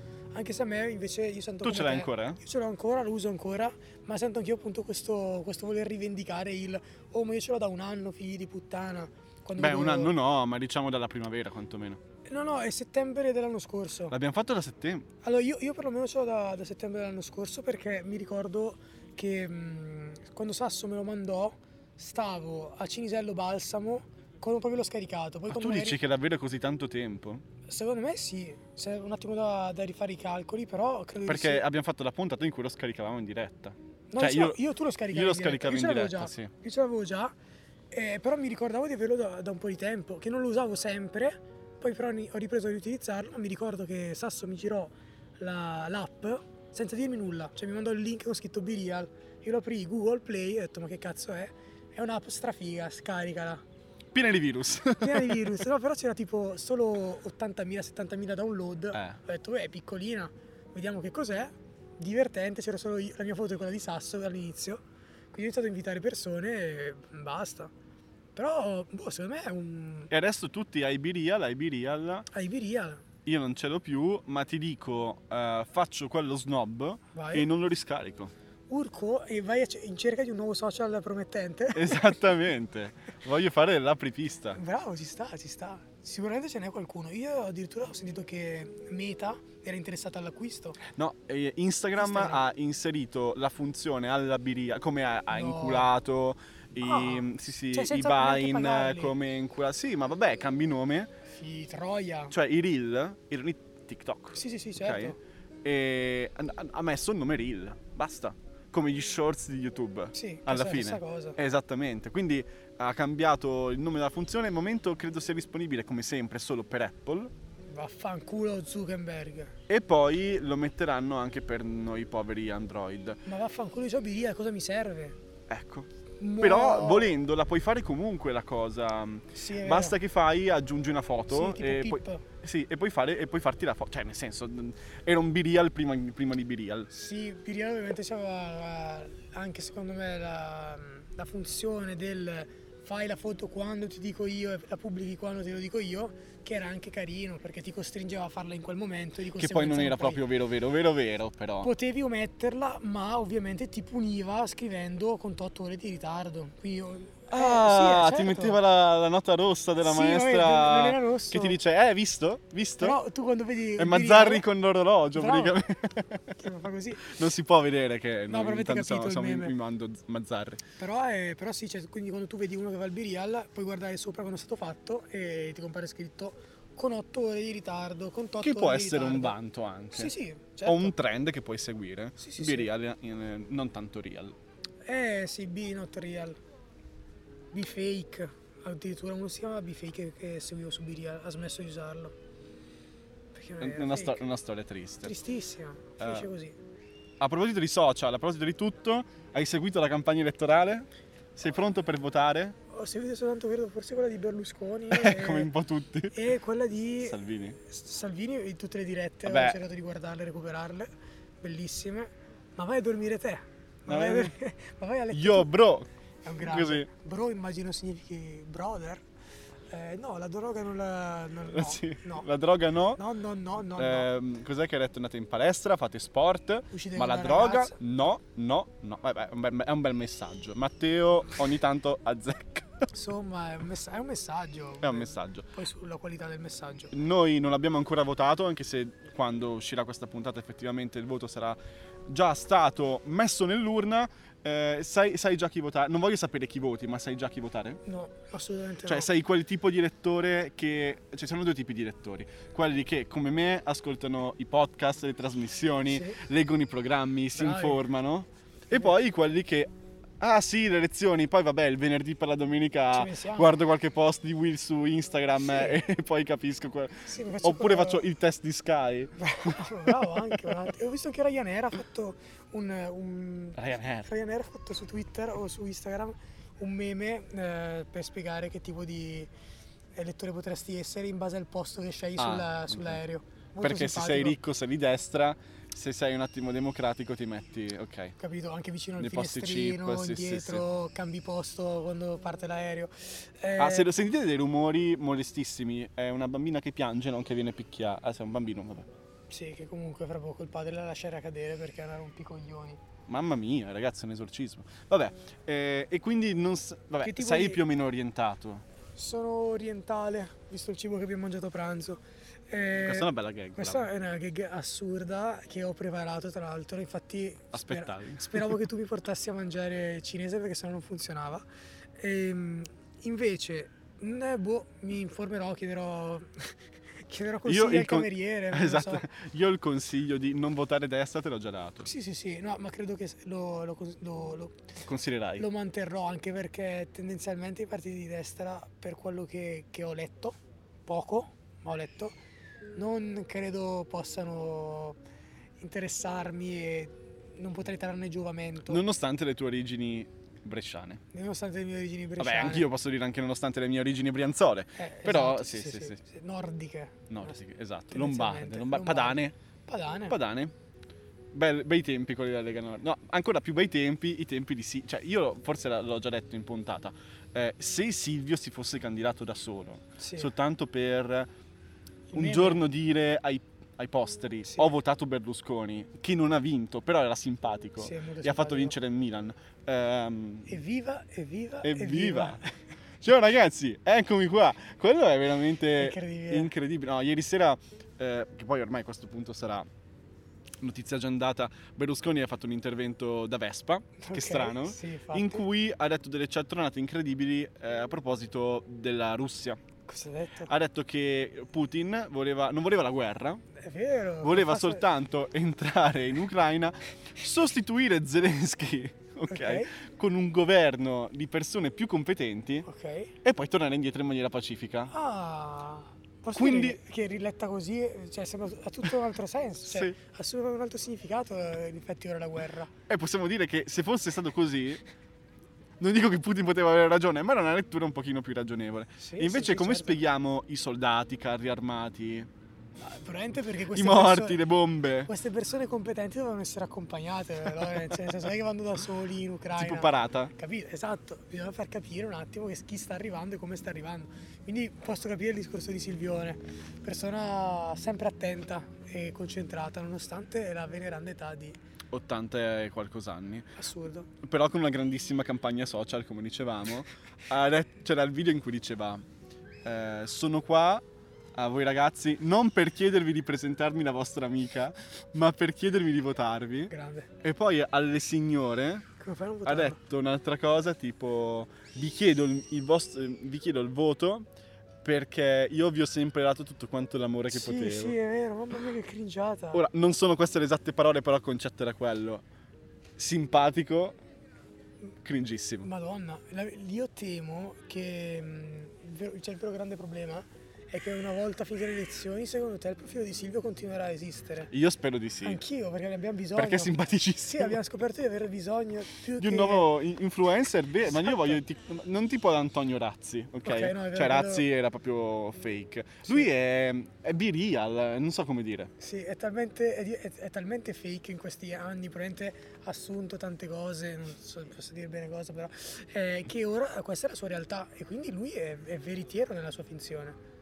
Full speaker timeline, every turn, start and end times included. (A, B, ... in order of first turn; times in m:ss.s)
0:00.3-0:10.2 A
0:01.6-0:02.4 B
0:09.6-0:12.0 B
0:12.2-0:14.2 A
0:14.1-0:15.1 B
0:15.2-0:26.0 A
0:25.5-0:27.4 B
0:27.6-0:31.6 A
0:31.2-0:36.5 B
0:34.1-0:37.3 A
0:37.9-0:53.6 A
0:54.1-0:55.6 B
0:55.0-1:07.7 A
0:58.9-0:59.2 B
1:08.3-1:10.1 A
1:10.1-1:12.3 B
1:12.3-1:13.0 A
1:13.2-1:18.3 B
1:17.1-1:17.5 A
1:18.7-1:22.3 A
1:21.7-1:24.6 B
1:24.5-1:30.8 A
1:30.9-1:41.1 B
1:32.0-1:32.4 A
1:35.3-1:35.9 A
1:36.8-1:39.2 A
1:41.2-1:42.4 A
1:42.3-1:57.3 B
1:44.4-1:45.2 A
1:50.1-1:51.4 A
1:57.7-1:59.5 A
1:59.7-2:03.2 B
2:03.2-2:05.2 A
2:05.5-2:16.9 B
2:06.2-2:07.2 A
2:09.3-2:10.0 A
2:11.3-2:12.2 A
2:16.9-2:30.2 A
2:29.4-2:31.7 B
2:31.6-2:38.6 A
2:37.3-2:43.0 B
2:39.8-2:41.6 A
2:42.8-2:44.5 A
2:43.8-2:46.4 B
2:45.1-2:45.6 A
2:46.4-2:47.2 A
2:47.0-2:50.6 B
2:48.3-2:49.6 A
2:50.8-2:59.4 A
2:58.4-3:00.1 B
2:59.9-3:01.0 A
3:00.6-3:04.4 B
3:02.2-3:02.7 A
3:04.8-3:06.4 A
3:07.5-3:12.2 A
3:13.3-3:14.2 A
3:13.6-3:15.2 B
3:15.0-3:16.6 A
3:16.0-3:16.3 B
3:17.2-3:22.6 B
3:22.7-3:25.5 A
3:24.9-3:26.2 B
3:26.1-3:35.5 A
3:27.0-3:27.6 B
3:29.2-3:29.6 B
3:33.9-3:34.3 B
3:35.1-3:36.9 B
3:36.2-3:39.0 A
3:39.7-3:42.3 A
3:41.5-3:43.0 B
3:43.0-3:44.1 A
3:43.8-3:52.9 B
3:46.7-3:47.8 A
3:52.9-3:56.9 A
3:54.8-3:55.5 B
3:56.9-4:07.8 B
4:07.8-4:09.1 A
4:08.8-4:30.4 B
4:15.9-4:16.2 A
4:17.3-4:17.8 A
4:22.9-4:23.6 A
4:25.4-4:25.8 A
4:27.0-4:28.0 A
4:29.2-4:39.3 A
4:33.6-4:34.1 B
4:39.9-4:44.4 A
4:42.2-4:43.0 B
4:43.6-4:48.1 B
4:48.2-4:53.9 A
4:49.0-4:50.6 B
4:53.6-4:58.9 B
4:59.3-5:02.8 A
5:03.1-5:08.6 B
5:07.0-5:07.6 A
5:08.9-5:21.4 A
5:12.8-5:13.9 B
5:17.5-5:18.6 B
5:22.0-5:29.1 A
5:27.4-5:31.9 B
5:31.8-5:34.7 A
5:34.8-5:35.4 B
5:35.4-5:42.2 A
5:42.7-5:45.0 A
5:45.6-5:48.8 A
5:48.7-5:51.0 B
5:51.1-5:52.7 A
5:52.2-5:56.0 B
5:54.8-5:57.4 A
5:57.1-5:59.3 B
5:57.9-6:00.2 A
6:00.1-6:00.5 B
6:01.3-6:11.3 B
6:10.0-6:10.3 A
6:12.1-6:12.6 A
6:12.1-6:20.6 B
6:17.8-6:18.7 A
6:20.5-6:22.4 A
6:21.6-6:22.4 B
6:23.0-6:29.7 B
6:25.8-6:26.5 A
6:30.6-6:39.6 B
6:34.0-6:35.4 A
6:39.9-6:40.5 A
6:40.5-6:43.4 B
6:43.6-6:44.8 A
6:44.2-6:52.7 B
6:49.3-6:49.7 A
6:52.6-6:53.1 A
6:53.2-6:54.9 B
6:54.9-7:02.7 A
6:56.3-6:56.8 B
6:59.6-7:00.0 B
7:02.9-7:04.8 B
7:05.8-7:12.3 B
7:09.0-7:10.0 A
7:12.8-7:14.4 A
7:13.7-7:15.1 B
7:15.0-7:31.6 A
7:19.6-7:20.3 B
7:31.9-7:33.5 B
7:33.6-7:34.1 A
7:34.2-7:39.0 B
7:39.6-7:40.8 B
7:41.3-7:48.9 B
7:46.7-7:47.1 A
7:49.0-7:49.8 A
7:49.4-7:54.3 B
7:54.8-7:58.0 B
7:57.3-7:59.6 A
7:59.5-8:02.2 B
8:03.0-8:04.0 B
8:05.0-8:05.7 B
8:05.6-8:14.5 A
8:14.5-8:15.4 B
8:15.2-8:19.7 A
8:16.3-8:17.6 B
8:19.2-8:28.7 B
8:20.9-8:21.4 A
8:23.4-8:24.4 A
8:28.8-8:40.2 A